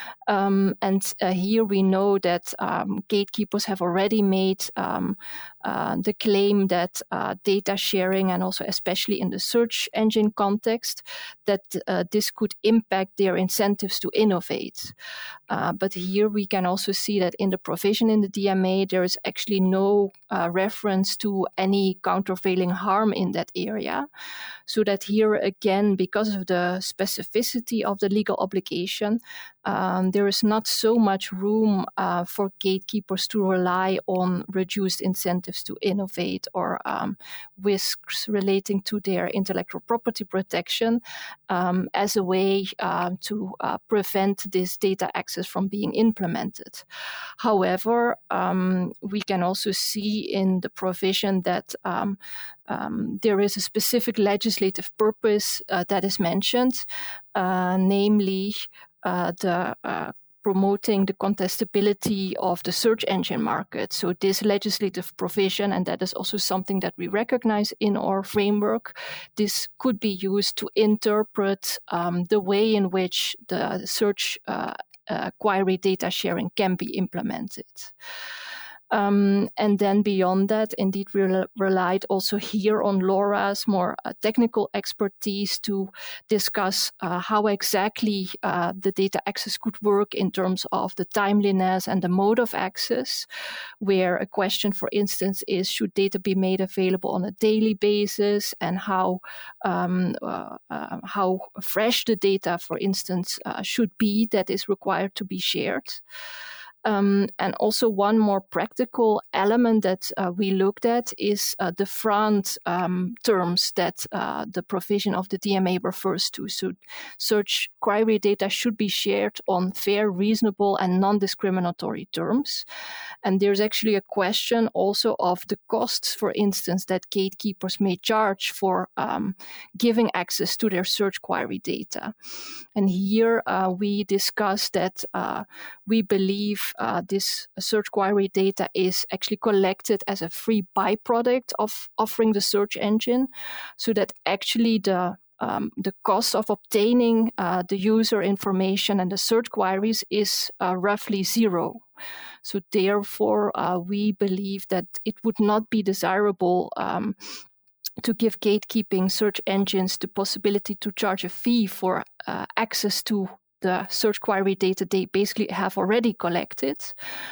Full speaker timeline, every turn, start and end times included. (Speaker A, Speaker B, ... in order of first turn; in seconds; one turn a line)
Speaker A: 0.3-14.9
Speaker A: 15.5-24.1
Speaker A: 24.7-46.8
Speaker A: 47.4-77.9
Speaker A: 78.9-93.3
Speaker A: 93.8-106.0
Speaker A: 106.8-122.6
Speaker A: 123.2-132.1
Speaker A: 132.7-151.8
Speaker A: 152.4-157.4
Speaker A: 158.0-166.9